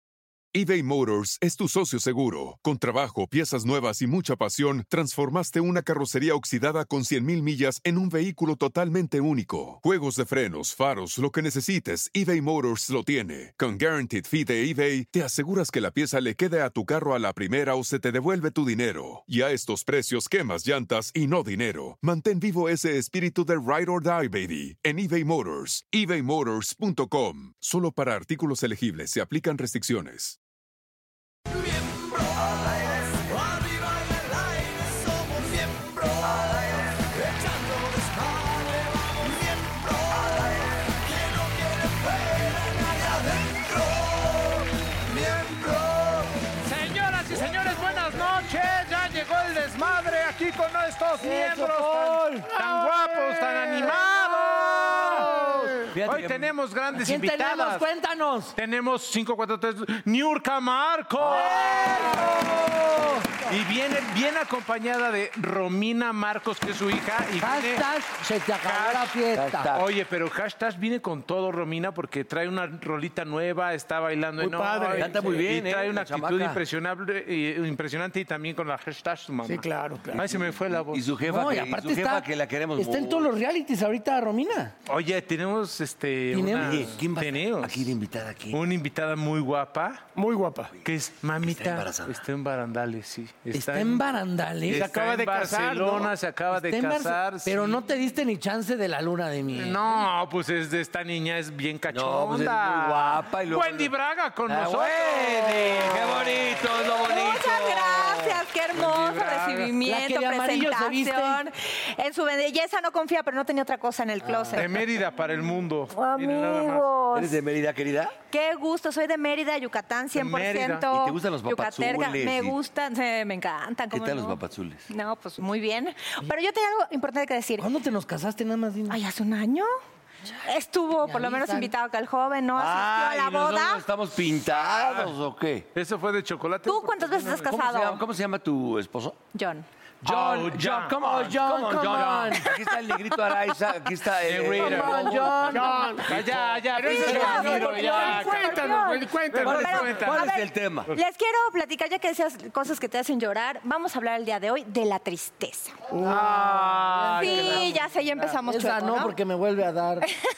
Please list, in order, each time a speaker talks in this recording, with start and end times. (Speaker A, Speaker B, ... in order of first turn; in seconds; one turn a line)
Speaker A: 0.5-30.4
Speaker B: 31.5-46.5
Speaker C: 46.6-57.9
Speaker D: 51.2-55.9
Speaker E: 55.9-56.5
Speaker D: 56.9-58.6
Speaker C: 58.6-62.4
Speaker E: 61.2-63.0
Speaker D: 61.2-63.5
Speaker C: 63.5-67.8
Speaker D: 67.4-69.8
Speaker C: 68.6-69.2
Speaker E: 69.3-69.8
Speaker C: 69.7-81.1
Speaker F: 74.4-75.4
Speaker E: 75.0-76.6
Speaker F: 79.5-80.3
Speaker E: 80.9-83.3
Speaker D: 81.3-84.7
Speaker C: 84.9-88.0
Speaker D: 86.3-86.9
Speaker E: 86.5-88.6
Speaker C: 88.5-90.0
Speaker F: 90.2-90.8
Speaker C: 90.8-94.0
Speaker E: 91.4-92.2
Speaker D: 93.5-95.0
Speaker C: 94.7-97.8
Speaker F: 94.8-96.1
Speaker D: 96.5-100.0
Speaker C: 99.5-106.7
Speaker E: 101.9-103.9
Speaker E: 104.5-108.4
Speaker G: 107.0-114.7
Speaker C: 108.8-109.7
Speaker D: 109.8-111.4
Speaker E: 114.2-114.6
Speaker C: 114.5-116.9
Speaker G: 115.9-117.4
Speaker E: 117.1-118.2
Speaker G: 118.3-127.7
Speaker C: 120.2-120.9
Speaker E: 120.9-122.6
Speaker E: 123.9-124.9
Speaker D: 127.6-129.0
Speaker G: 128.9-129.7
Speaker G: 130.4-133.8
Speaker D: 131.0-131.7
Speaker E: 132.6-135.7
Speaker C: 134.5-135.2
Speaker C: 135.8-137.5
Speaker G: 136.7-138.0
Speaker E: 137.4-139.2
Speaker G: 139.3-139.7
Speaker E: 140.0-145.2
Speaker C: 140.1-142.3
Speaker D: 141.1-142.5
Speaker C: 144.2-145.5
Speaker D: 144.6-145.9
Speaker F: 145.4-149.9
Speaker G: 145.5-145.8
Speaker C: 146.1-150.3
Speaker G: 146.8-155.8
Speaker E: 149.4-150.9
Speaker C: 156.0-158.1
Speaker D: 156.1-157.7
Speaker G: 157.2-159.1
Speaker D: 158.5-160.1